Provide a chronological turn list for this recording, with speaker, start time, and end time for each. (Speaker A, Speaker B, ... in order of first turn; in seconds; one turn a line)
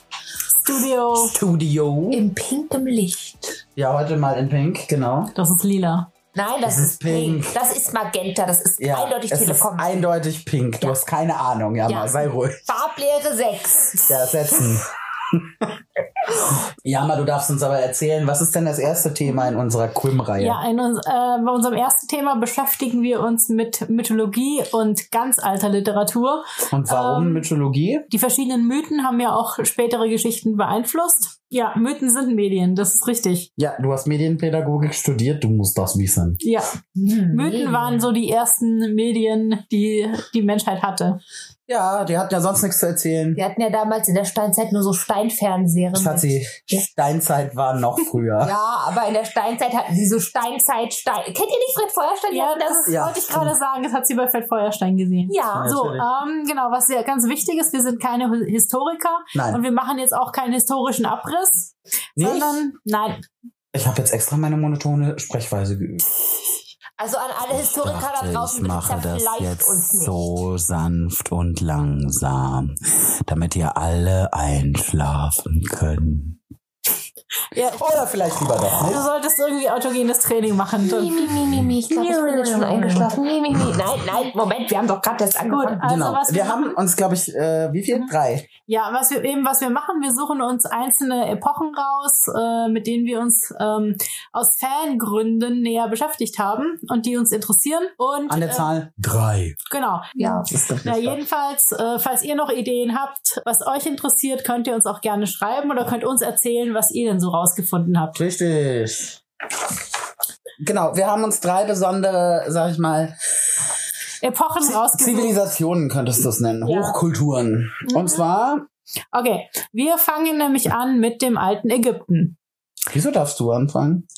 Speaker A: 0.6-1.3
Speaker B: 1.2-2.2
Speaker C: 2.1-3.6
Speaker B: 3.8-5.3
Speaker A: 5.3-6.1
Speaker C: 6.3-10.1
Speaker B: 6.7-7.6
Speaker B: 8.8-12.7
Speaker C: 11.9-12.2
Speaker C: 12.7-14.7
Speaker B: 14.1-15.7
Speaker B: 16.6-20.6
Speaker A: 20.4-27.4
Speaker B: 26.7-28.1
Speaker A: 28.1-33.5
Speaker B: 33.6-36.4
Speaker A: 36.4-36.7
Speaker C: 36.9-38.1
Speaker A: 37.3-41.2
Speaker B: 41.7-43.4
Speaker C: 43.3-46.3
Speaker B: 45.9-48.5
Speaker C: 48.4-53.0
Speaker A: 52.3-63.2
Speaker B: 52.9-53.5
Speaker C: 55.3-55.8
Speaker B: 55.5-56.1
Speaker B: 59.3-59.6
Speaker B: 62.2-62.6
Speaker B: 63.7-66.0
Speaker C: 67.0-70.4
Speaker B: 67.5-76.4
Speaker A: 77.5-78.0
Speaker B: 77.7-79.0
Speaker A: 78.8-81.3
Speaker C: 80.8-86.0
Speaker A: 81.9-83.1
Speaker A: 85.5-86.8
Speaker B: 85.8-88.5
Speaker A: 88.7-98.7
Speaker B: 98.3-99.6
Speaker A: 99.7-108.2
Speaker C: 100.2-100.5
Speaker B: 100.5-101.2
Speaker B: 108.2-109.2
Speaker B: 110.6-113.1
Speaker A: 114.2-115.4
Speaker B: 114.7-118.7
Speaker A: 116.6-117.0
Speaker A: 117.9-118.2
Speaker A: 119.1-122.4
Speaker B: 122.9-124.0